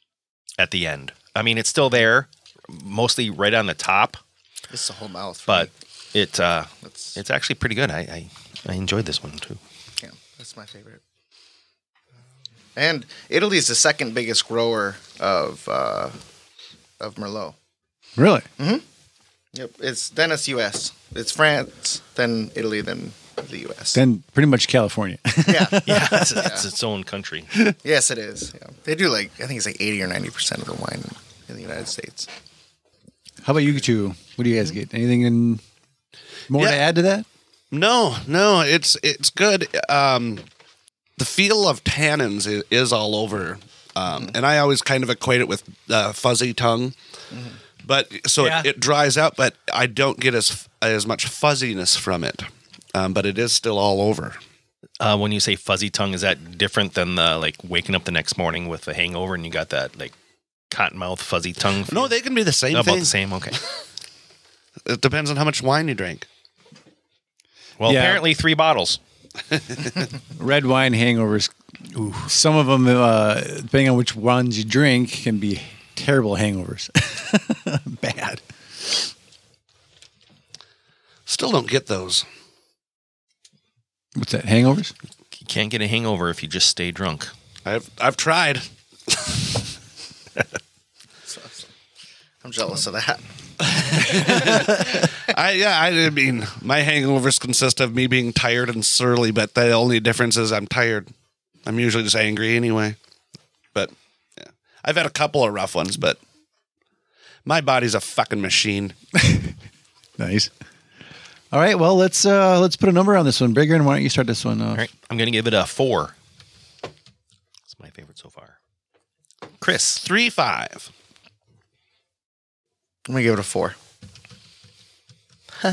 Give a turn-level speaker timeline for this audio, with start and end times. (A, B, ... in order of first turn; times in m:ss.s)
0:00.6-0:04.2 A
0:04.7-0:05.7 B
0:05.5-0:09.6 A
0:06.9-0:07.2 B
0:10.0-0:11.0 B
0:12.8-0:16.1 B
0:17.0-0:17.6 B
0:18.2-0:18.5 C
0:18.6-0:18.8 B
0:19.5-0:24.0 B
0:23.9-0:26.3 C
0:25.4-0:26.7 B
0:25.9-0:27.5 A
0:27.8-0:32.3 B
0:33.4-0:35.6 C
0:36.5-0:37.3 C
0:36.6-0:36.8 D
0:37.7-0:40.4 D
0:41.2-0:47.0 D
0:47.8-0:54.4 D
0:48.4-0:48.7 C
0:55.0-1:00.1 A
1:00.7-1:02.1 A
1:01.9-1:03.1 D
1:02.7-1:03.6 A
1:04.9-1:06.3 D
1:07.8-1:09.0 A
1:07.9-1:08.2 C
1:09.8-1:10.0 D
1:10.4-1:19.0 C
1:21.3-1:22.3 D
1:24.2-1:24.9 C
1:25.4-1:27.3 A
1:27.6-1:29.6 D
1:31.3-1:31.7 B
1:32.4-1:33.2 B
1:33.8-1:41.1 D
1:33.9-1:35.1 B
1:34.3-1:34.6 C
1:41.6-1:43.0 D
1:43.7-1:46.2 D
1:47.4-1:49.0 D
1:49.2-1:49.5 C
1:50.2-1:50.5 C
1:51.5-1:54.8 C
1:54.8-1:56.2 A
1:57.7-1:58.6 A
1:59.6-2:00.0 A
2:00.0-2:00.9 D
2:03.1-2:03.8 B